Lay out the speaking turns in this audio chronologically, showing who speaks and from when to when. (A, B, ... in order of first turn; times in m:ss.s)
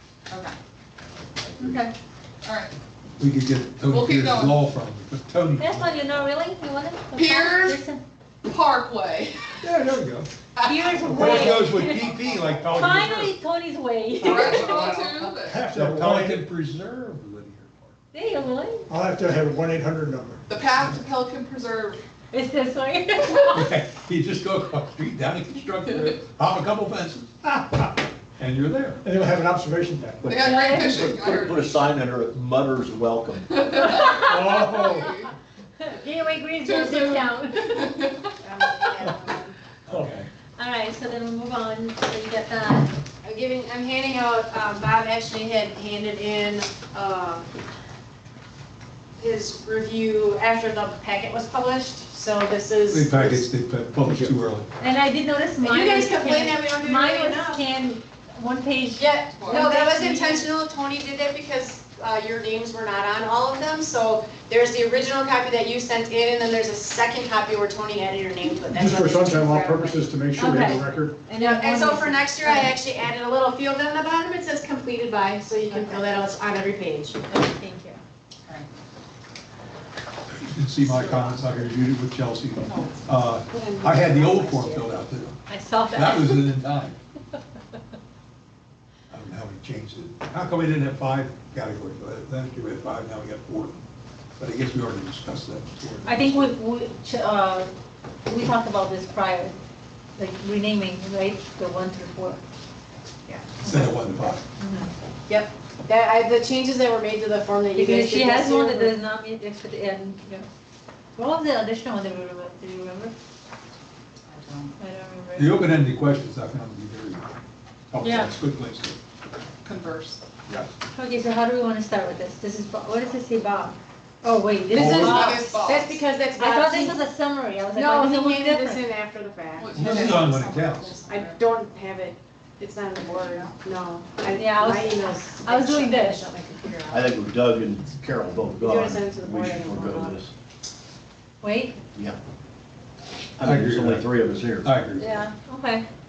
0:00.3-0:00.5 A
0:01.6-0:01.9 B
0:02.4-0:02.7 A
0:03.2-0:06.1 C
0:03.9-0:04.6 A
0:05.6-0:08.0 B
0:07.1-0:07.8 A
0:08.4-0:09.6 A
0:09.6-0:10.3 C
0:10.6-0:12.0 A
0:10.6-0:12.1 B
0:11.1-0:11.5 D
0:11.1-0:13.3 C
0:12.6-0:15.0 B
0:14.2-0:15.6 A
0:14.2-0:16.4 D
0:15.5-0:17.9 C
0:18.1-0:18.9 B
0:18.9-0:20.4 D
0:20.5-0:22.0 A
0:22.3-0:23.7 B
0:23.5-0:27.4 C
0:27.5-0:27.9 D
0:28.4-0:29.0 C
0:29.0-0:30.2 D
0:30.2-0:33.6 E
0:30.2-0:31.8 A
0:30.4-0:31.0 B
0:33.6-0:35.3 A
0:33.7-0:35.0 B
0:34.2-0:35.2 D
0:35.8-0:38.0 B
0:36.6-0:38.1 A
0:38.4-0:39.6 F
0:39.9-0:40.3 C
0:40.6-0:42.9 B
0:43.2-0:47.5 F
0:49.2-0:53.4 F
0:52.9-0:54.7 C
0:54.8-1:00.5 B
0:55.6-0:57.6 F
0:59.0-1:10.1 F
0:59.4-0:59.7 A
1:08.7-1:11.2 D
1:10.4-1:12.8 B
1:11.4-1:17.2 F
1:15.7-1:16.3 B
1:17.3-1:18.0 B
1:20.3-1:25.4 C
1:20.8-1:21.4 A
1:22.6-1:23.1 A
1:23.5-1:24.9 F
1:25.5-1:26.5 B
1:25.9-1:27.0 C
1:29.1-1:33.8 C
1:34.4-1:36.4 C
1:36.0-1:37.7 B
1:38.2-1:39.6 B
1:40.2-1:42.4 B
1:43.6-1:44.4 C
1:43.6-1:44.9 B
1:45.3-1:48.9 F
1:47.7-1:50.5 B
1:51.2-1:53.1 B
1:54.3-1:54.7 A
1:54.8-1:55.7 B
1:55.4-1:57.3 C
1:57.9-1:59.0 C
1:58.0-1:58.3 B
1:59.6-2:00.2 A
2:00.9-2:05.8 B
2:04.2-2:07.0 F
2:04.7-2:05.3 C
2:04.8-2:06.0 A
2:06.4-2:08.8 B
2:07.7-2:10.3 F
2:09.6-2:11.4 A
2:09.7-2:11.0 C
2:11.0-2:17.1 F
2:13.0-2:13.6 A
2:14.3-2:16.3 B
2:16.9-2:20.3 E
2:18.6-2:20.2 F
2:21.4-2:21.8 B
2:23.4-2:24.7 E
2:23.4-2:24.1 C
2:24.6-2:25.1 C
2:25.0-2:25.8 B